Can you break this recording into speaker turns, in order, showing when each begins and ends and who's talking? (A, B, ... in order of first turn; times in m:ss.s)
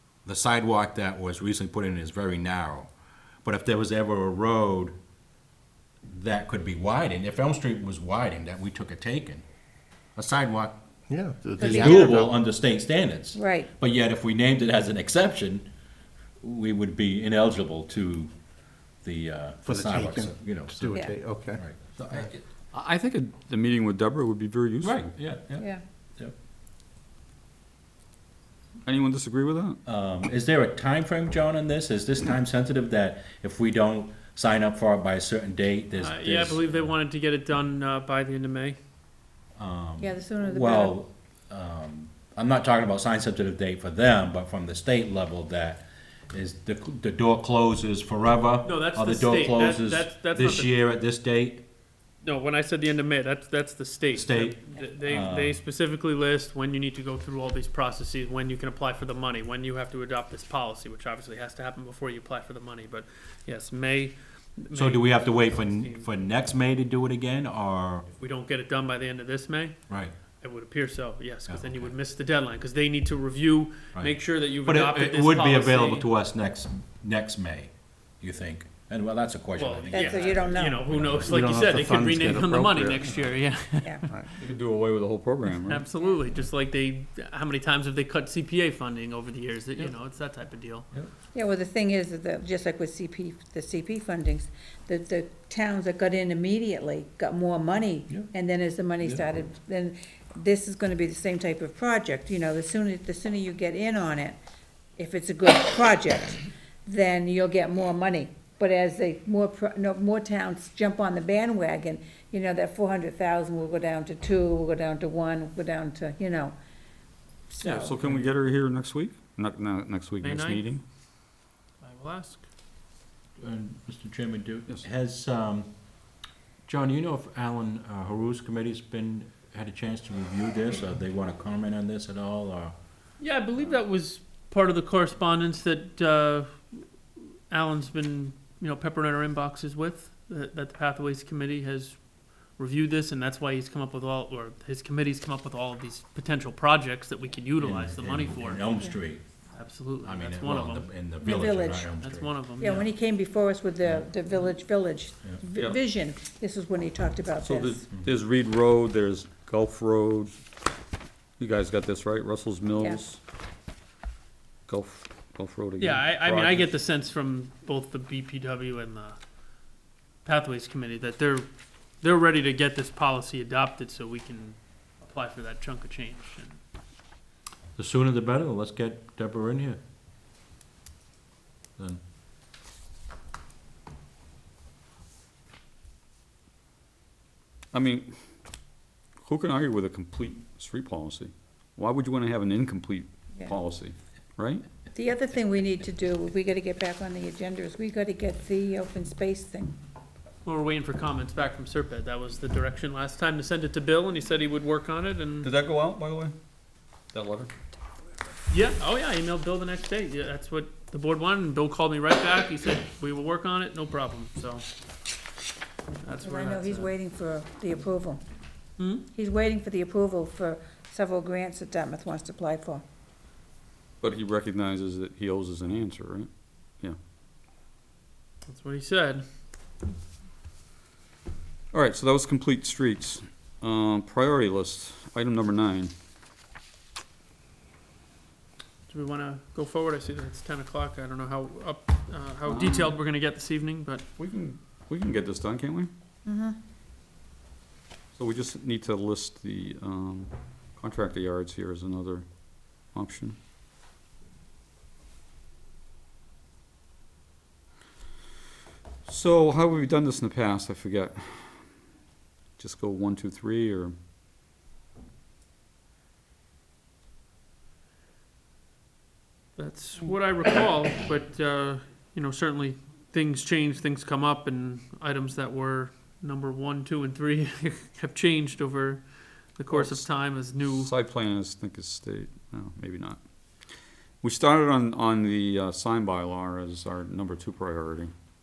0:00.2-0:02.9 A
0:03.4-0:04.9 A
0:06.1-0:09.4 A
0:10.2-0:10.8 A
0:11.1-0:12.4 B
0:11.5-0:15.7 A
0:11.6-0:12.2 C
0:13.3-0:13.7 C
0:16.4-0:18.3 A
0:19.0-0:22.4 A
0:19.6-0:21.6 B
0:22.7-0:25.1 D
0:24.8-0:26.3 A
0:28.8-0:29.8 D
0:29.9-0:36.9 A
0:36.0-0:38.8 E
0:39.6-0:51.6 A
0:40.0-0:41.0 C
0:48.6-0:50.7 E
0:52.2-1:06.1 E
0:54.1-0:55.6 A
1:04.7-1:08.1 A
1:08.2-1:09.8 E
1:09.9-1:10.1 A
1:10.4-1:16.1 E
1:11.5-1:11.9 A
1:14.0-1:22.4 A
1:19.6-1:24.2 E
1:19.9-1:21.0 C
1:21.3-1:23.1 B
1:23.8-1:24.1 C
1:24.4-1:25.8 D
1:25.5-1:30.9 E
1:31.3-1:44.4 C
1:45.0-1:56.6 C
1:57.5-1:58.0 C
1:57.6-2:00.8 D
2:00.2-2:00.8 E
2:01.8-2:02.4 E
2:03.4-2:05.7 A
2:06.7-2:12.7 A
2:13.2-2:16.8 E
2:17.5-2:28.7 E
2:27.6-2:29.2 A
2:29.5-2:30.9 E
2:30.0-2:32.3 A
2:31.2-2:31.9 C
2:32.0-2:32.9 E
2:32.6-2:37.9 C
2:37.4-2:40.4 D
2:41.4-2:43.2 D
2:42.8-2:43.0 C
2:44.7-2:46.7 D
2:45.8-2:49.2 E
2:50.2-2:51.5 E
2:52.0-2:56.6 E
2:57.8-2:59.8 A
3:07.7-3:08.1 D
3:09.2-3:14.6 D
3:14.9-3:19.8 C
3:20.4-3:25.5 E
3:25.4-3:26.4 D
3:27.0-3:27.5 D
3:28.5-3:34.6 E
3:36.0-3:36.9 E
3:36.2-3:38.2 C
3:38.8-3:39.0 E
3:39.0-3:42.8 C
3:44.0-3:47.0 D
3:48.5-3:49.2 E
3:51.7-3:55.9 D
3:58.9-4:04.1 E
4:02.5-4:03.0 D
4:04.2-4:05.9 D
4:06.2-4:06.6 C
4:08.2-4:13.4 D
4:19.1-4:21.7 D
4:22.6-4:23.9 D
4:29.6-4:40.9 E
4:39.7-4:40.2 D
4:40.8-4:43.2 D
4:44.2-4:48.1 D